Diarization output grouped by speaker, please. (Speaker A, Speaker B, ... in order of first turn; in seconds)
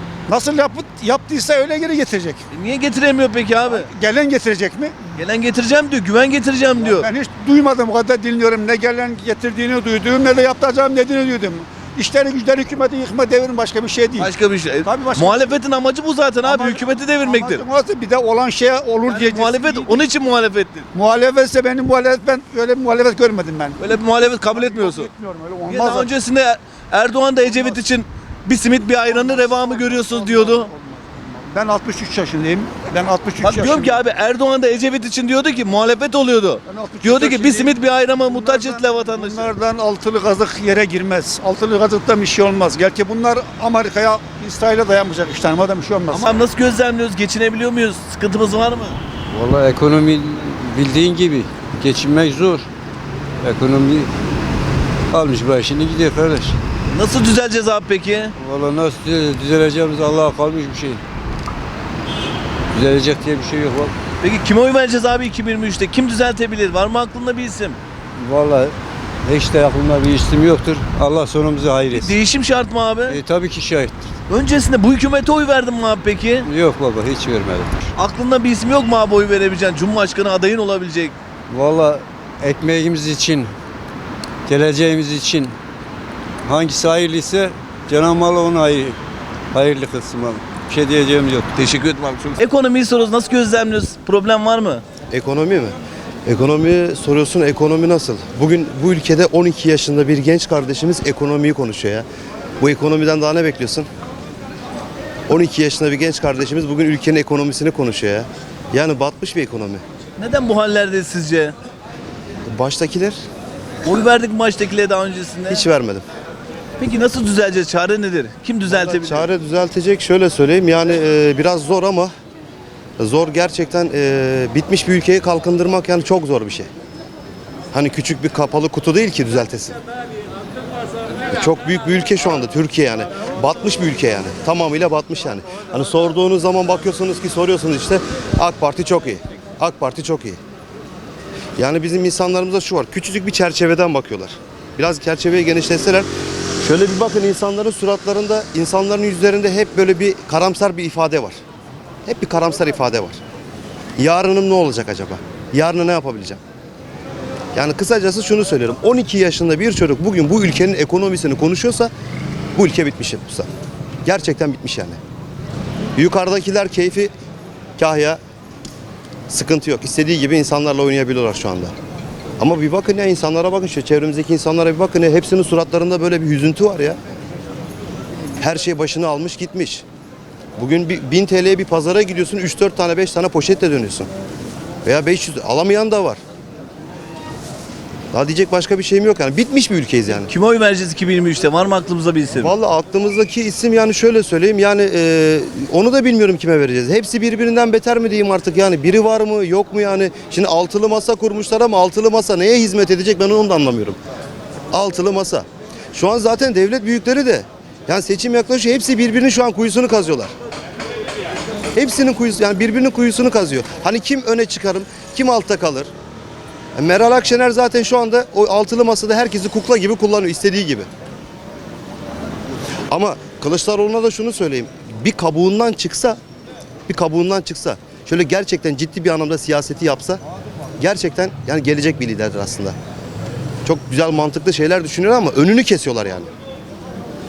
Speaker A: 0.3-2.4, 3.7-5.1, 6.8-14.3, 14.8-15.6, 16.4-20.1, 20.9-26.1, 27.4-27.9, 29.0-34.0, 36.7-46.4
Speaker B: 2.5-3.9, 5.2-7.1, 14.2-17.7, 19.1-20.9, 23.8-30.7, 33.4-39.6, 46.1-49.0, 56.9-58.3, 64.2-67.8, 71.9-73.2, 74.3-76.5, 77.9-81.1, 91.5-94.8, 110.2-111.5, 113.8-115.7, 116.8-119.3, 190.3-192.5
Speaker C: 49.3-52.7, 53.4-54.1, 55.1-56.6, 58.4-61.0, 62.7-63.9, 68.2-72.2, 73.1-74.1, 76.4-77.8, 81.5-83.5, 84.5-85.5, 86.4-89.0, 89.5-91.5
Speaker D: 95.1-102.1, 102.6-103.9, 105.3-109.8, 112.5-113.2, 115.5-116.0, 118.7-122.1, 123.0-126.7, 127.7-129.8, 131.3-140.4, 141.6-146.1, 146.6-151.4, 152.1-153.2, 154.0-156.4, 157.6-161.9, 162.6-163.5, 164.1-165.0, 165.9-167.1, 167.8-168.2, 169.3-171.7, 172.4-177.0, 178.4-179.8, 180.6-184.1, 184.8-186.2, 188.1-190.3, 192.4-204.0, 204.7-210.3, 211.8-215.9, 216.8-220.9, 222.9-226.2, 226.9-230.2, 230.8-232.8, 233.7-236.3